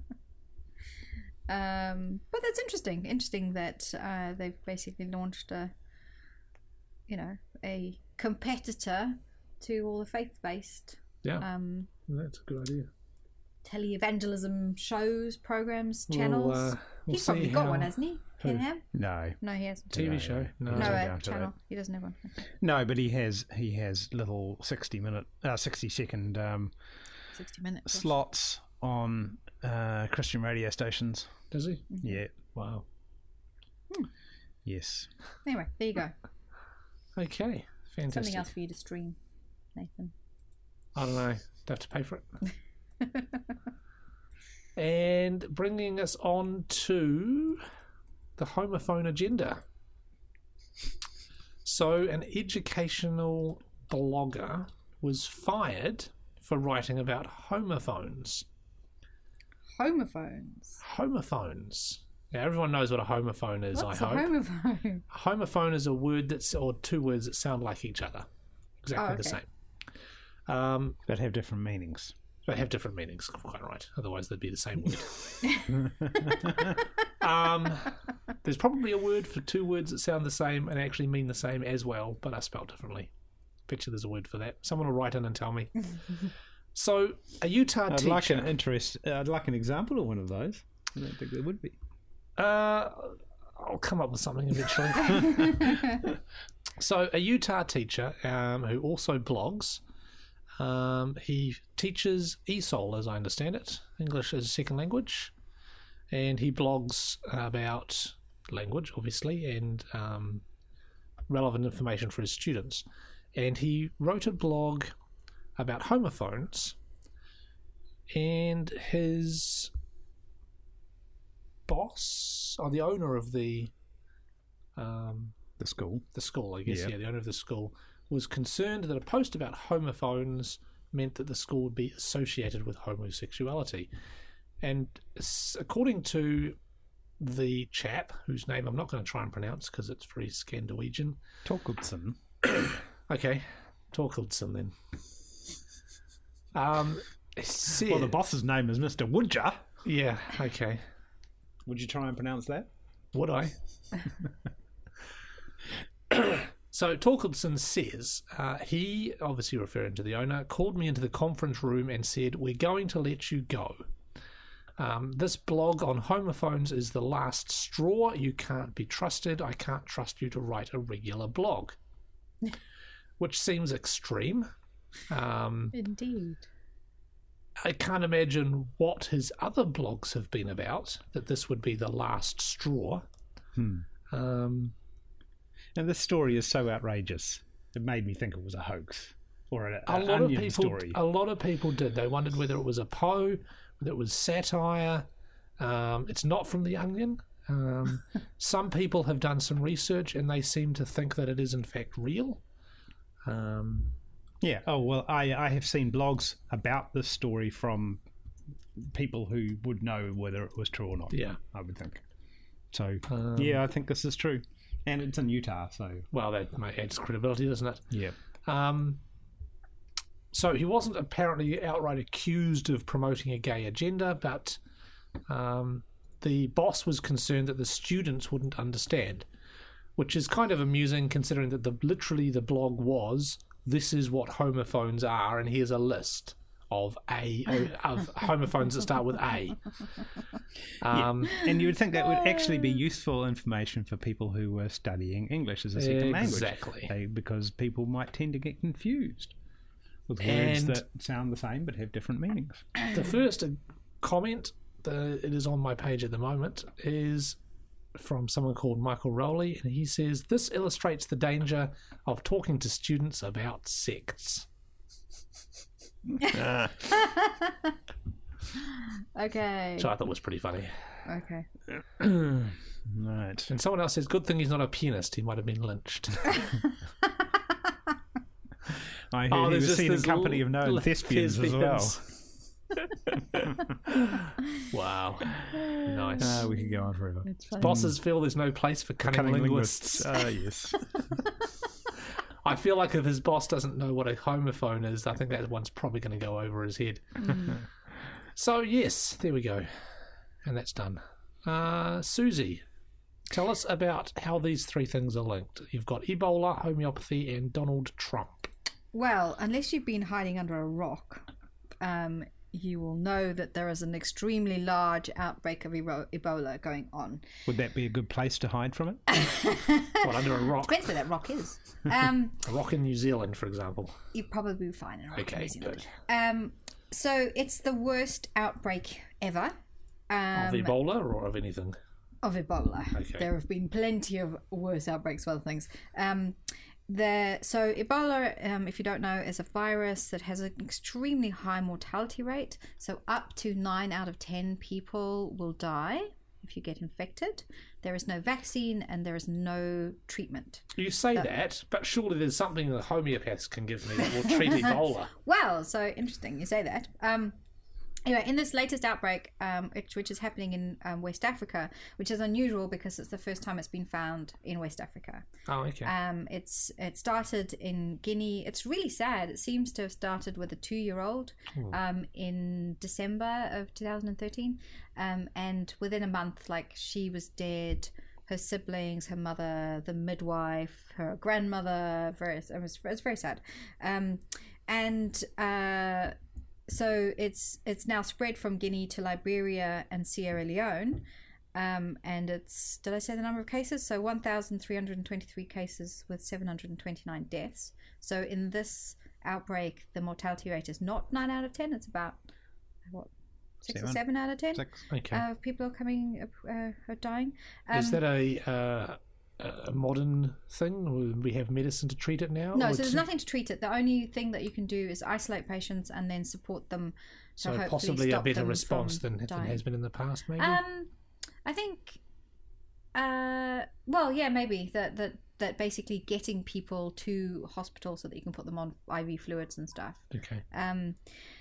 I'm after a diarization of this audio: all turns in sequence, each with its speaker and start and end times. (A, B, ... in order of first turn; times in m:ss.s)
0:01.5-0:05.7 A
0:07.1-0:11.9 A
0:12.1-0:12.9 B
0:13.6-0:18.8 A
0:16.1-0:18.6 B
0:18.9-0:19.4 C
0:19.4-0:20.0 A
0:19.9-0:21.5 C
0:19.9-0:21.1 B
0:20.7-0:22.4 A
0:22.6-0:26.7 C
0:27.3-0:28.1 A
0:27.9-0:31.3 C
0:31.5-0:32.8 B
0:31.9-0:32.2 A
0:32.0-0:32.3 C
0:34.6-0:35.1 C
0:35.5-0:36.2 A
0:37.2-0:38.5 B
0:38.1-0:39.2 A
0:39.8-0:40.1 A
0:41.0-0:42.3 B
0:44.8-0:47.6 B
0:48.4-0:49.6 B
0:51.6-0:58.5 B
0:59.8-1:00.8 A
1:00.8-1:04.3 B
1:03.7-1:05.0 A
1:05.1-1:08.3 B
1:08.8-1:09.5 B
1:09.0-1:09.4 A
1:10.5-1:11.0 B
1:11.1-1:12.1 C
1:12.5-1:15.7 B
1:16.2-1:16.5 C
1:17.2-1:23.1 B
1:23.7-1:28.5 B
1:27.9-1:31.8 C
1:32.4-1:36.0 B
1:36.8-1:39.8 B
1:40.6-1:45.3 B
1:46.1-1:50.4 B
1:51.3-1:54.9 B
1:55.6-1:56.8 B
1:58.1-1:59.7 B
2:01.7-2:03.7 B
2:04.8-2:05.4 B
2:05.6-2:06.0 C
2:06.2-2:13.9 B
2:06.7-2:06.9 C
2:14.6-2:16.6 B
2:17.2-2:21.2 B
2:21.4-2:22.2 C
2:22.4-2:24.7 B
2:26.5-2:28.1 B
2:27.8-2:29.7 C
2:29.8-2:30.8 B
2:31.7-2:32.7 C
2:33.1-2:33.5 B
2:36.1-2:43.8 B
2:44.8-2:51.8 B
2:53.2-2:54.5 B
2:55.1-2:55.7 B
2:55.7-2:56.4 A
2:57.6-3:03.0 B
3:03.6-3:03.9 C
3:04.1-3:04.7 B
3:05.8-3:11.0 C
3:09.9-3:15.1 B
3:15.6-3:22.4 B
3:23.2-3:24.0 B
3:24.4-3:28.0 C
3:28.8-3:32.0 C
3:31.1-3:31.4 B
3:32.7-3:36.1 C
3:33.1-3:33.6 B
3:36.1-3:39.0 B
3:40.3-3:44.6 B
3:45.3-3:49.3 B
3:50.0-3:59.7 B
4:00.8-4:01.5 B
4:00.9-4:09.3 C
4:05.8-4:06.9 B
4:10.1-4:12.7 C
4:10.2-4:10.8 B
4:12.9-4:17.4 B
4:18.0-4:24.5 B
4:26.2-4:27.7 A
4:26.2-4:26.8 C
4:29.2-4:29.9 A
4:29.8-4:30.8 B
4:31.1-4:31.5 A
4:32.0-4:33.5 C
4:33.5-4:36.6 B
4:39.1-4:42.0 C
4:39.3-4:42.1 B
4:43.1-4:46.4 B
4:45.6-4:46.7 A
4:46.2-4:47.9 C
4:47.3-4:47.7 A
4:47.6-4:50.2 B
4:49.0-4:50.8 C
4:52.4-4:57.6 B
4:57.3-4:57.6 A
4:58.4-4:59.7 B
5:00.4-5:02.6 B
5:03.3-5:08.5 B
5:08.9-5:11.2 A
5:11.8-5:17.3 A
5:17.5-5:19.0 C
5:19.1-5:22.4 A
5:20.0-5:20.9 B
5:22.4-5:24.0 B
5:24.1-5:29.5 A
5:25.2-5:25.9 B
5:30.1-5:30.8 A
5:30.4-5:31.8 B
5:32.2-5:51.3 A
5:32.9-5:33.3 B
5:50.8-5:55.1 B
5:54.3-5:57.4 A
5:58.0-6:05.3 A
6:05.5-6:05.9 B
6:05.8-6:26.2 A
6:26.7-6:42.2 A
6:43.6-6:48.0 A
6:43.7-6:44.0 C
6:44.9-6:45.2 B
6:47.7-6:53.0 B
6:52.5-6:59.6 A
6:57.4-7:00.6 B
7:00.4-7:00.9 A
7:01.4-7:02.0 A
7:03.0-7:11.0 A
7:10.1-7:10.4 B